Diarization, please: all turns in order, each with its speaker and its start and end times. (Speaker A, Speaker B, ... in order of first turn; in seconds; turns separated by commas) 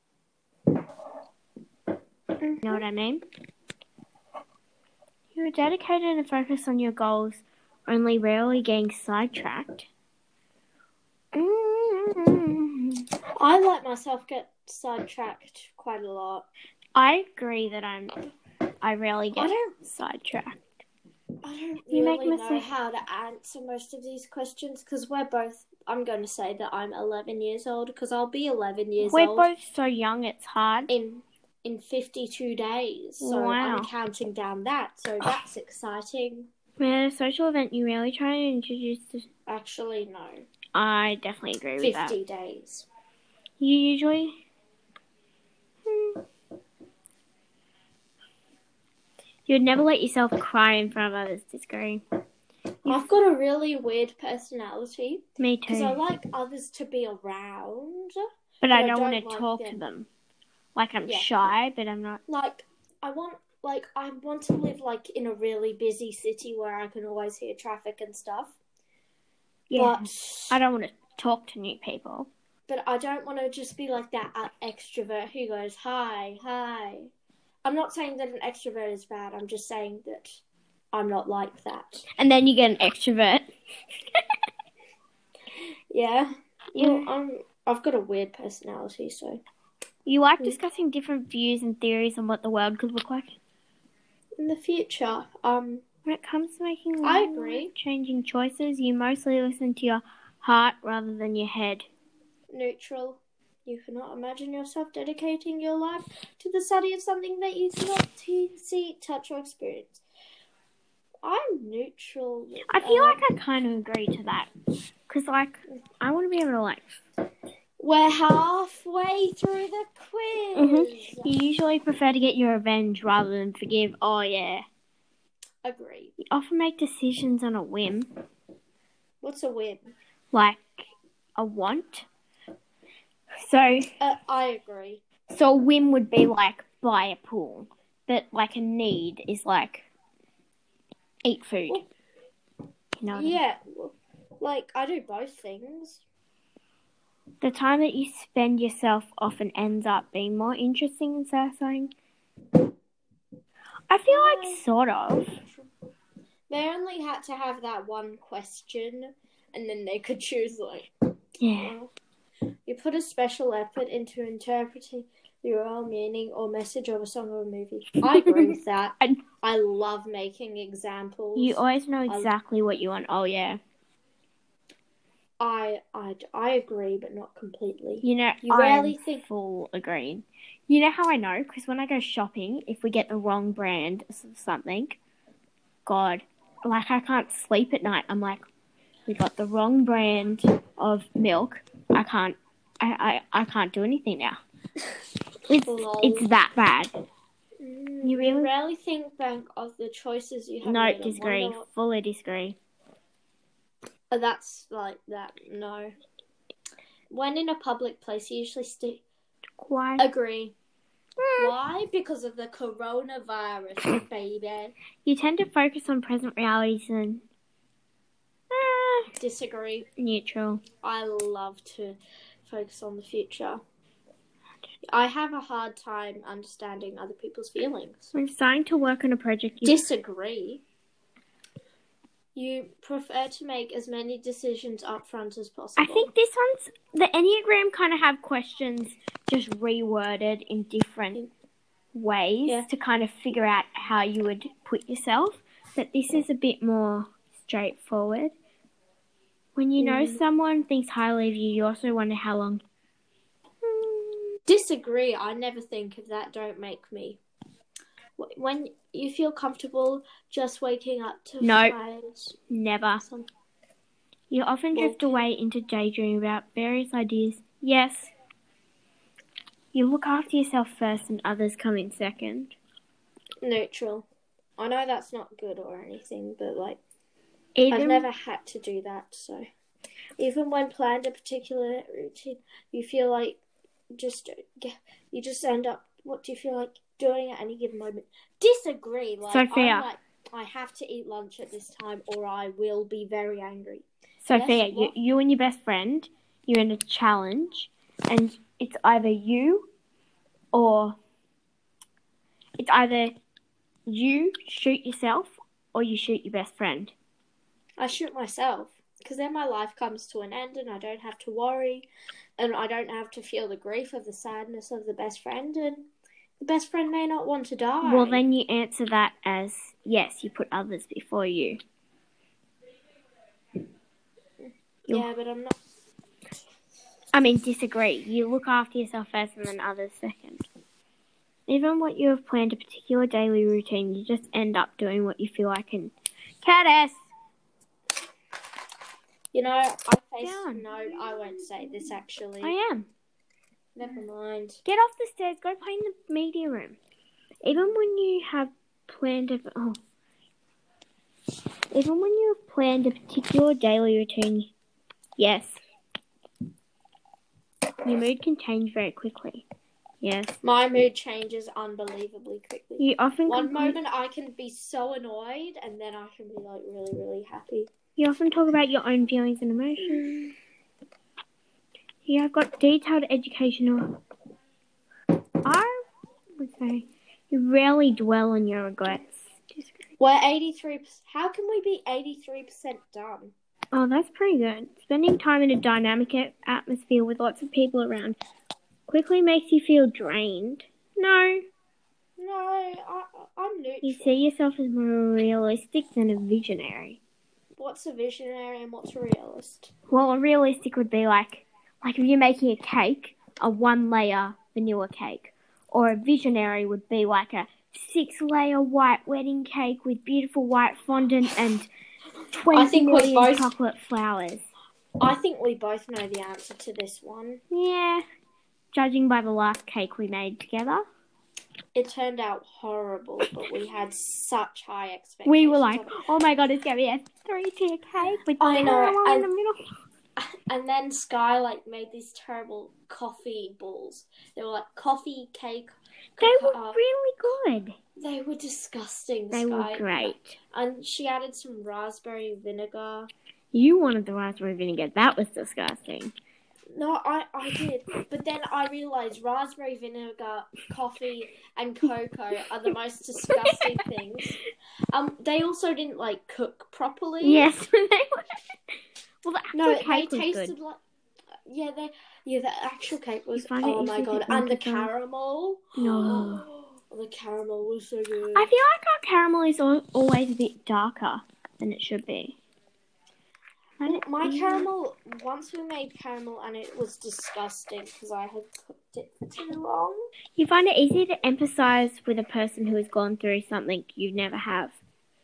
Speaker A: 2.4-2.8, Speaker B: 2.6-3.2, Speaker B: 5.3-9.9, Speaker B: 11.3-13.1, Speaker A: 13.4-16.5, Speaker B: 16.9-18.1, Speaker B: 18.8-20.6, Speaker A: 19.3-19.8, Speaker A: 21.4-29.5, Speaker B: 21.9-22.7, Speaker B: 29.0-30.9, Speaker A: 30.9-36.5, Speaker B: 33.2-33.9, Speaker B: 36.8-39.3, Speaker A: 39.5-40.5, Speaker B: 40.7-42.2, Speaker A: 41.8-42.9, Speaker B: 43.6-44.4, Speaker B: 45.9-46.2, Speaker B: 49.5-52.0, Speaker A: 52.9-59.8, Speaker B: 55.4-56.0, Speaker B: 58.6-60.1, Speaker B: 60.8-62.2, Speaker A: 62.3-68.6, Speaker B: 69.7-72.3, Speaker A: 69.8-70.6, Speaker A: 72.7-77.1, Speaker A: 77.6-80.4, Speaker A: 80.9-82.1, Speaker B: 82.2-83.5, Speaker A: 85.9-89.4, Speaker B: 86.8-87.1, Speaker B: 90.1-93.4, Speaker A: 94.4-95.8, Speaker B: 96.0-101.9, Speaker A: 97.0-97.7, Speaker A: 102.5-110.0, Speaker A: 111.2-113.2, Speaker B: 112.7-114.5, Speaker B: 115.1-117.0, Speaker A: 117.8-121.3, Speaker B: 120.6-124.7, Speaker A: 125.6-126.1, Speaker B: 126.2-128.1, Speaker A: 129.2-129.9, Speaker B: 130.3-132.1, Speaker B: 133.4-133.9, Speaker A: 134.0-135.0, Speaker B: 135.3-139.9, Speaker B: 141.2-141.8, Speaker B: 143.0-143.4, Speaker A: 143.1-146.0, Speaker B: 147.4-151.9, Speaker B: 153.9-155.4, Speaker A: 154.1-154.6, Speaker A: 156.5-160.9, Speaker B: 161.4-161.8, Speaker A: 161.6-161.9, Speaker A: 162.7-172.3, Speaker B: 168.2-169.2, Speaker B: 171.4-173.6, Speaker A: 175.4-179.2, Speaker B: 178.0-185.0, Speaker B: 185.9-188.4, Speaker B: 189.1-194.4, Speaker B: 195.5-196.9, Speaker A: 195.7-196.3, Speaker A: 197.6-201.6, Speaker B: 198.0-198.5, Speaker B: 200.6-202.6, Speaker A: 204.1-205.9, Speaker A: 207.1-209.0, Speaker B: 209.6-210.1, Speaker A: 210.0-210.6, Speaker B: 211.2-211.6, Speaker A: 211.4-214.7, Speaker B: 215.1-217.2, Speaker B: 218.5-219.1, Speaker A: 219.2-219.9, Speaker B: 220.0-220.6, Speaker A: 220.8-223.6, Speaker A: 224.9-228.1, Speaker B: 228.1-229.9, Speaker A: 229.6-230.6, Speaker A: 232.3-236.1, Speaker B: 235.8-241.2, Speaker B: 241.9-248.3, Speaker B: 249.6-252.6, Speaker A: 249.8-250.2, Speaker B: 253.7-254.2, Speaker A: 254.5-257.2, Speaker A: 258.2-262.4, Speaker B: 261.4-261.8, Speaker B: 262.5-263.0, Speaker A: 263.0-263.3, Speaker B: 264.3-268.1, Speaker A: 264.7-265.2, Speaker B: 269.7-272.6, Speaker A: 273.4-274.1, Speaker A: 274.6-276.8, Speaker B: 277.6-278.1, Speaker A: 277.7-279.4, Speaker A: 280.2-283.4, Speaker A: 283.9-294.9, Speaker B: 289.3-289.9, Speaker B: 294.2-299.7, Speaker B: 300.5-301.0, Speaker B: 302.6-303.2, Speaker B: 303.9-306.9, Speaker A: 307.8-311.9, Speaker A: 312.4-315.9, Speaker A: 316.4-318.2, Speaker B: 317.8-321.6, Speaker A: 324.4-325.6, Speaker B: 327.1-330.5, Speaker B: 331.5-337.1, Speaker A: 339.3-342.5, Speaker B: 340.2-340.7, Speaker B: 342.4-342.9, Speaker A: 343.8-344.6, Speaker B: 344.7-346.8, Speaker B: 347.4-349.8, Speaker B: 351.7-354.5, Speaker B: 355.2-355.6, Speaker B: 357.8-359.5, Speaker B: 360.0-360.3, Speaker A: 360.4-367.7, Speaker B: 362.8-363.8, Speaker B: 368.0-370.1, Speaker A: 369.9-370.3, Speaker B: 372.1-374.0, Speaker B: 375.4-375.8, Speaker B: 376.4-379.8, Speaker A: 380.0-383.3, Speaker B: 383.7-388.2, Speaker B: 388.9-391.4, Speaker A: 392.2-394.1, Speaker B: 393.8-397.0, Speaker A: 397.6-399.7, Speaker B: 399.9-411.7, Speaker B: 412.3-414.4, Speaker A: 412.5-413.5, Speaker A: 415.0-417.4, Speaker B: 417.5-418.0, Speaker B: 418.7-420.8, Speaker A: 421.8-426.1, Speaker B: 425.2-429.7, Speaker A: 428.4-429.3, Speaker A: 430.2-436.8, Speaker B: 436.2-437.8, Speaker A: 438.0-443.1, Speaker B: 439.3-440.4, Speaker B: 443.5-446.1, Speaker A: 446.7-454.4, Speaker B: 453.4-453.7, Speaker A: 454.9-457.5, Speaker B: 457.2-458.4, Speaker B: 459.2-460.6, Speaker A: 459.5-460.8, Speaker A: 461.5-468.5, Speaker B: 463.4-464.9, Speaker B: 465.8-466.5, Speaker B: 468.3-472.4, Speaker B: 473.8-474.7, Speaker A: 473.8-480.0, Speaker B: 480.4-484.8